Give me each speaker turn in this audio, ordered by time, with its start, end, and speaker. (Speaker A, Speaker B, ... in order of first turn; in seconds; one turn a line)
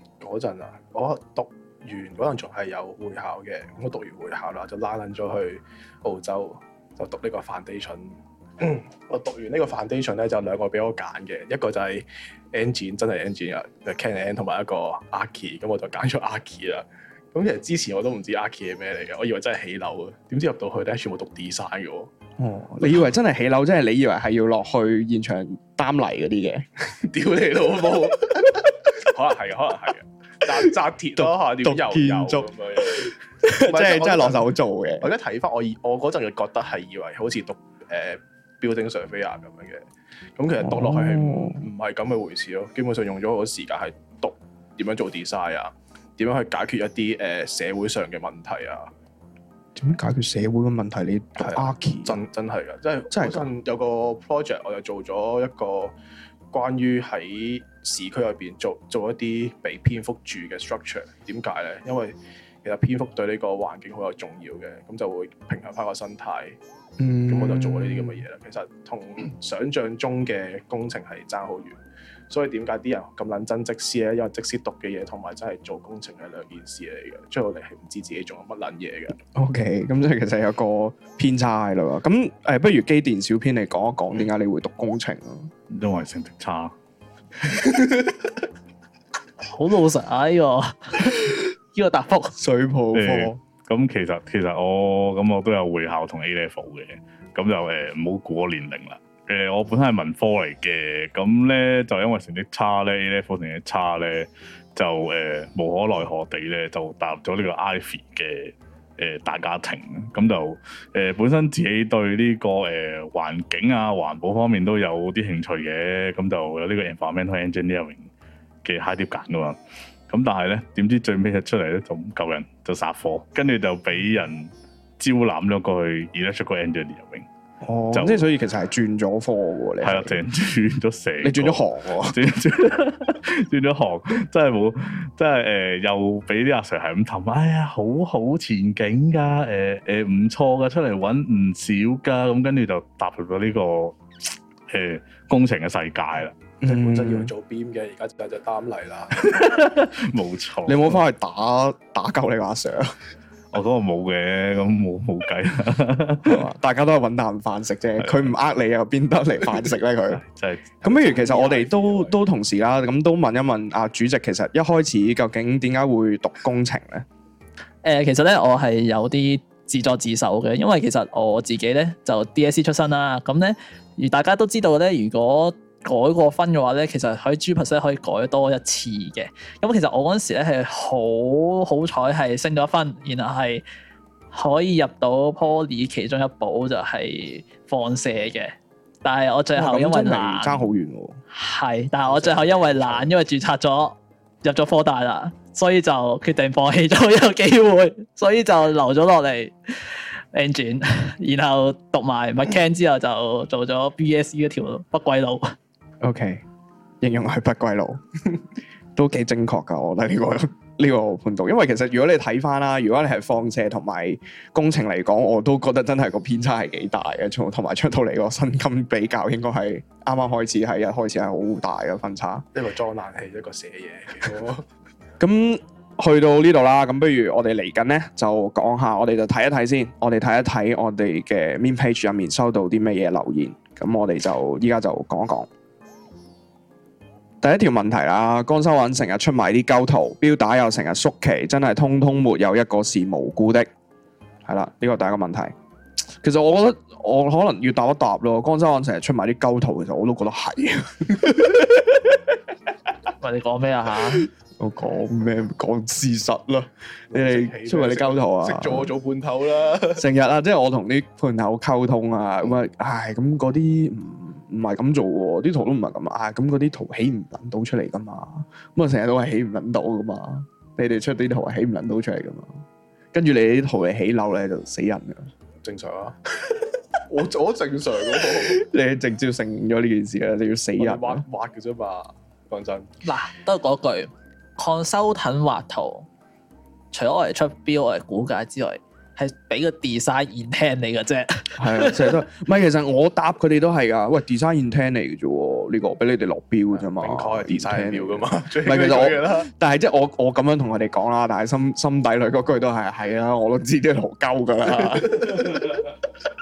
Speaker A: 0.2-22.1
Speaker B: 22.4-26.7
Speaker A: 27.0-34.5
Speaker B: 31.2-35.1
Speaker A: 35.0-48.9
Speaker B: 40.6-41.6
Speaker B: 49.8-52.2
Speaker A: 51.4-55.9
Speaker B: 53.1-53.5
Speaker A: 56.5-66.6
Speaker B: 67.0-68.2
Speaker A: 67.3-79.2
Speaker B: 79.3-85.5
Speaker C: 85.7-86.7
Speaker D: 89.4-92.3
Speaker B: 92.4-93.4
Speaker C: 92.9-118.1
Speaker C: 118.6-119.6
Speaker C: 120.1-127.2
Speaker B: 127.6-130.2
Speaker C: 127.9-128.2
Speaker C: 129.8-146.3
Speaker B: 131.2-132.2
Speaker B: 146.6-147.3
Speaker A: 146.6-149.3
Speaker C: 149.3-151.0
Speaker B: 150.7-153.0
Speaker C: 153.5-156.4
Speaker B: 156.2-160.2
Speaker C: 158.0-158.3
Speaker C: 160.2-160.9
Speaker B: 160.8-167.1
Speaker A: 160.9-162.2
Speaker D: 167.8-183.6
Speaker D: 184.3-190.7
Speaker B: 189.5-191.2
Speaker D: 191.3-205.5
Speaker A: 192.1-193.1
Speaker B: 206.0-206.4
Speaker B: 207.0-208.0
Speaker B: 208.9-222.4
Speaker A: 222.5-224.7
Speaker B: 225.2-235.5
Speaker B: 237.4-243.7
Speaker B: 244.4-245.5
Speaker B: 246.2-251.7
Speaker D: 253.2-254.3
Speaker B: 254.6-258.9
Speaker A: 257.1-260.0
Speaker B: 259.9-272.5
Speaker B: 273.1-275.3
Speaker A: 275.6-278.6
Speaker B: 278.2-281.2
Speaker A: 280.8-282.9
Speaker D: 283.0-286.1
Speaker D: 286.9-292.2
Speaker B: 291.6-305.8
Speaker A: 296.8-299.5